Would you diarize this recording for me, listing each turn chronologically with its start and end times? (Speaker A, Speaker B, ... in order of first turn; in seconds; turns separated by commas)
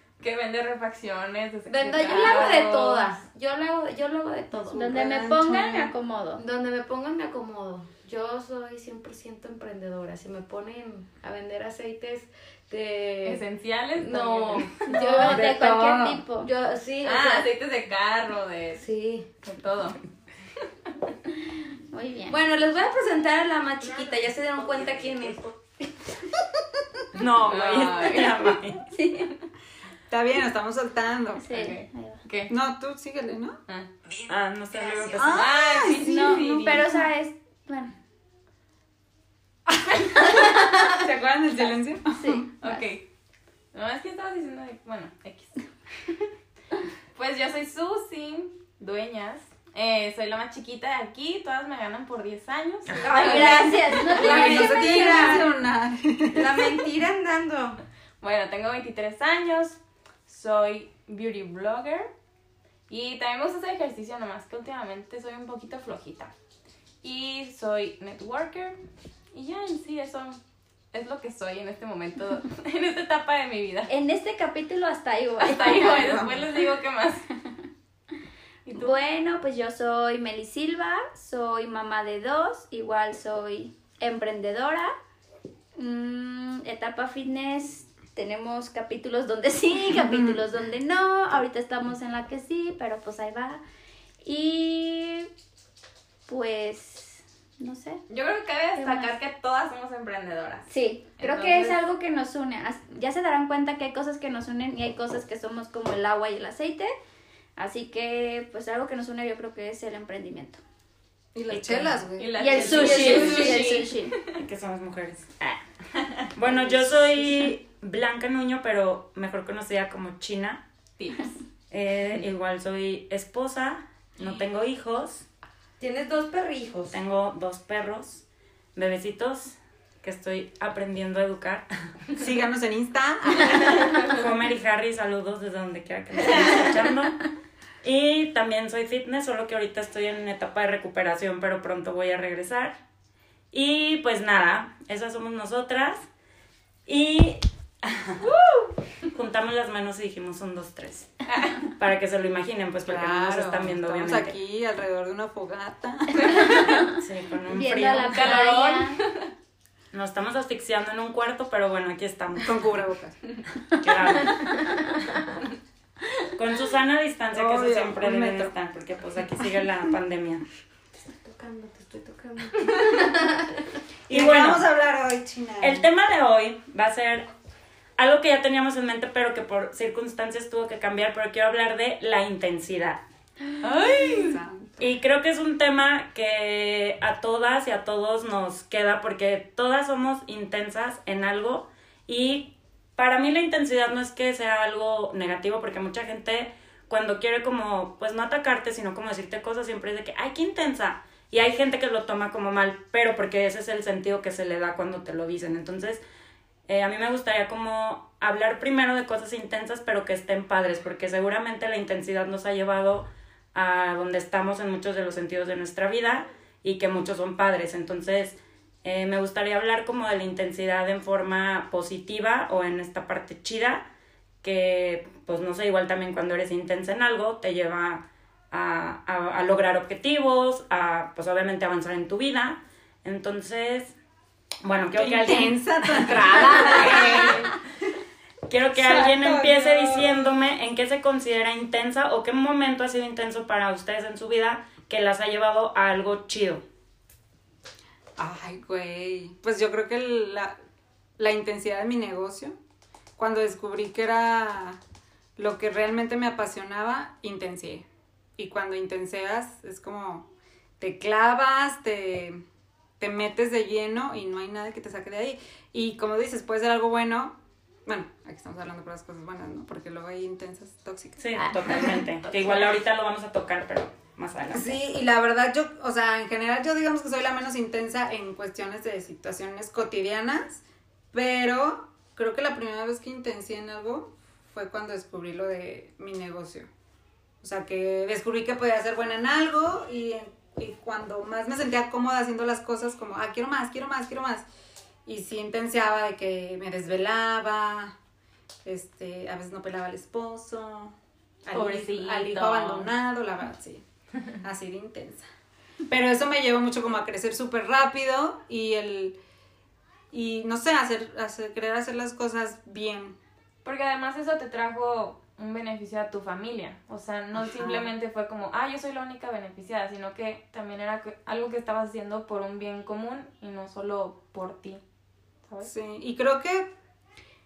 Speaker A: 0.2-3.2, Speaker B: 1.7-5.0, Speaker C: 2.1-2.7, Speaker C: 4.7-5.9, Speaker D: 4.7-6.4, Speaker B: 6.4-13.4, Speaker A: 13.2-15.5, Speaker B: 14.0-17.5, Speaker D: 14.9-16.5, Speaker A: 17.0-18.8, Speaker B: 18.8-19.3, Speaker A: 19.4-20.0, Speaker D: 21.9-22.4, Speaker B: 22.3-26.4, Speaker E: 27.1-28.8, Speaker A: 27.5-28.5, Speaker D: 28.9-29.3, Speaker C: 30.1-31.5, Speaker D: 31.4-32.2, Speaker A: 31.5-32.5, Speaker C: 32.5-33.6, Speaker E: 34.3-35.5, Speaker C: 35.1-36.8, Speaker A: 35.2-36.9, Speaker D: 36.0-37.9, Speaker C: 40.2-42.5, Speaker D: 42.2-42.9, Speaker A: 42.6-43.0, Speaker A: 43.7-45.6, Speaker A: 47.1-54.6, Speaker B: 53.0-55.4, Speaker D: 53.1-55.4, Speaker C: 54.2-56.8, Speaker B: 56.3-57.8, Speaker A: 57.3-57.6, Speaker A: 58.2-62.1, Speaker A: 62.9-66.3, Speaker A: 67.0-68.8, Speaker A: 69.3-70.4, Speaker A: 70.9-73.9, Speaker D: 73.9-76.4, Speaker A: 75.4-77.3, Speaker C: 75.9-76.3, Speaker A: 78.7-79.0, Speaker D: 78.7-84.9, Speaker D: 85.8-93.6, Speaker C: 89.9-90.4, Speaker D: 94.2-95.3, Speaker D: 96.3-98.0, Speaker A: 98.1-101.8, Speaker D: 98.8-99.1, Speaker D: 100.7-106.9, Speaker D: 107.6-110.6, Speaker C: 111.3-113.6, Speaker E: 111.5-112.0, Speaker A: 112.2-114.3, Speaker D: 112.4-114.2, Speaker B: 112.8-113.5, Speaker E: 114.3-115.6, Speaker E: 116.3-120.6, Speaker C: 116.4-117.4, Speaker A: 121.0-121.3, Speaker E: 121.7-125.3, Speaker B: 125.8-127.0, Speaker E: 126.9-128.2, Speaker E: 128.8-131.7, Speaker C: 132.2-133.7, Speaker E: 133.9-137.2, Speaker E: 137.8-142.8, Speaker E: 143.5-146.1, Speaker E: 146.9-148.2, Speaker A: 148.2-148.7, Speaker E: 149.1-154.3, Speaker A: 151.3-151.7, Speaker C: 152.8-156.8, Speaker D: 156.5-157.0, Speaker E: 157.0-158.4, Speaker D: 157.5-159.0, Speaker A: 157.9-159.2, Speaker E: 159.9-162.6, Speaker C: 162.4-163.2, Speaker E: 163.8-164.6, Speaker E: 166.3-170.4, Speaker C: 167.3-168.5, Speaker B: 171.1-173.7, Speaker E: 174.1-174.7, Speaker C: 174.1-175.9, Speaker E: 175.6-177.3, Speaker E: 178.0-183.0, Speaker A: 183.6-184.4, Speaker C: 184.0-184.9, Speaker E: 184.8-206.0, Speaker E: 206.7-223.9, Speaker E: 224.4-234.0, Speaker E: 234.6-237.4, Speaker C: 234.9-237.6, Speaker E: 238.5-246.6, Speaker C: 238.8-240.3, Speaker C: 248.2-250.6, Speaker C: 251.2-252.6, Speaker C: 253.2-254.8, Speaker C: 255.4-257.9, Speaker C: 258.4-260.3, Speaker C: 260.8-262.4, Speaker C: 263.0-272.0, Speaker E: 271.2-274.8, Speaker C: 274.5-286.7, Speaker C: 287.4-294.5, Speaker C: 295.1-297.9, Speaker C: 298.6-303.8, Speaker A: 301.5-302.9, Speaker C: 304.4-305.2, Speaker C: 305.9-309.2, Speaker C: 310.1-313.2, Speaker A: 313.6-324.8, Speaker C: 317.4-317.9, Speaker C: 325.6-326.7